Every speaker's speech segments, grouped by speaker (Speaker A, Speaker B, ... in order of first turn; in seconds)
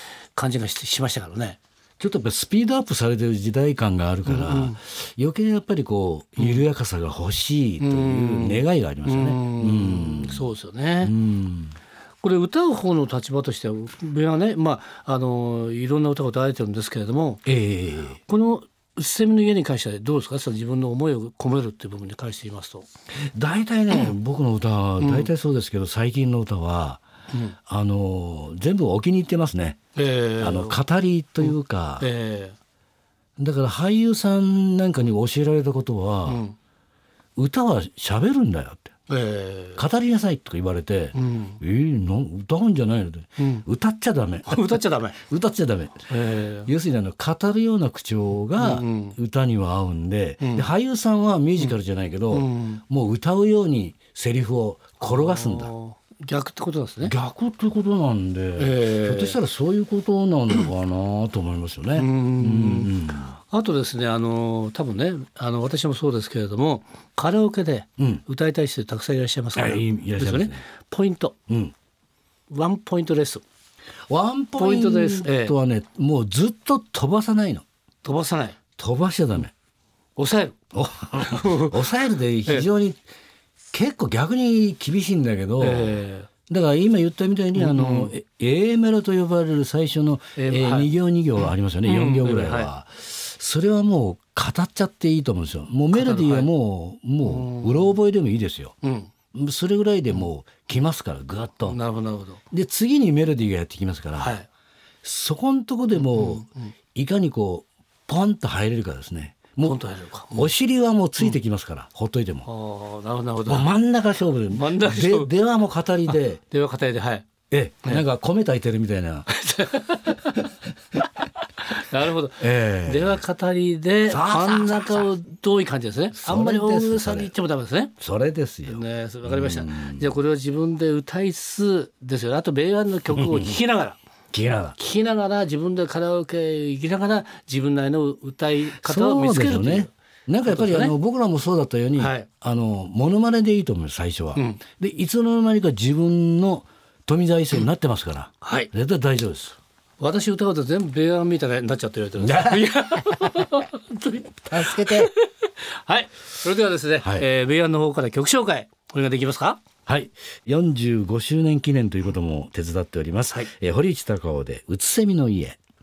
Speaker A: 0.3-1.6, 4.2-4.8, 6.4-6.6, 7.8-11.1, 12.2-17.4, 18.3-22.9, 25.0-25.3, 29.9-30.8, 31.4-32.5, 36.2-36.5, 39.1-39.8, 41.1-41.6, 43.4-43.6, 44.5-45.2, 46.1-46.7, 48.6-49.2, 50.4-50.7, 52.3-52.8, 55.0-57.1, 58.6-59.4, 62.0-71.3, 72.5-73.4, 74.6-75.5, 78.0-78.6, 80.2-80.5, 81.2-81.8, 85.6-86.3, 87.5-88.1, 90.3-90.9, 91.8-92.7, 95.9-96.5, 97.2-97.9, 98.8-99.1, 101.7-102.4, 104.2-104.5, 106.0-106.7, 109.6-110.5, 112.5-113.7, 114.5-115.3, 116.5-117.3, 119.3-120.4, 121.6-127.9, 128.7-134.0, 134.8-139.9, 140.4-140.9, 142.0-142.3, 144.3-144.6, 148.4-148.7, 150.0-159.6
Speaker B: 2.0-10.5, 11.0-11.7, 17.4-18.2, 23.3-27.0, 27.7-29.8, 30.4-32.1, 33.4-36.4, 37.4-38.9, 39.8-46.1, 46.6-55.7, 57.0-63.4, 68.0-68.2, 69.5-70.6, 71.5-71.7, 74.1-77.6, 78.8-79.5, 80.7-83.0, 83.7-98.8, 99.3-101.8, 102.5-104.4, 105.0-109.8, 110.3-112.5, 113.4-116.4, 117.5-119.3, 122.4-123.2, 124.1-125.1, 126.1-127.3, 128.0-130.1, 133.1-133.6, 134.3-134.8, 138.8-149.6, 152.2-153.5, 154.5-155.1, 157.0-157.2, 159.9-165.6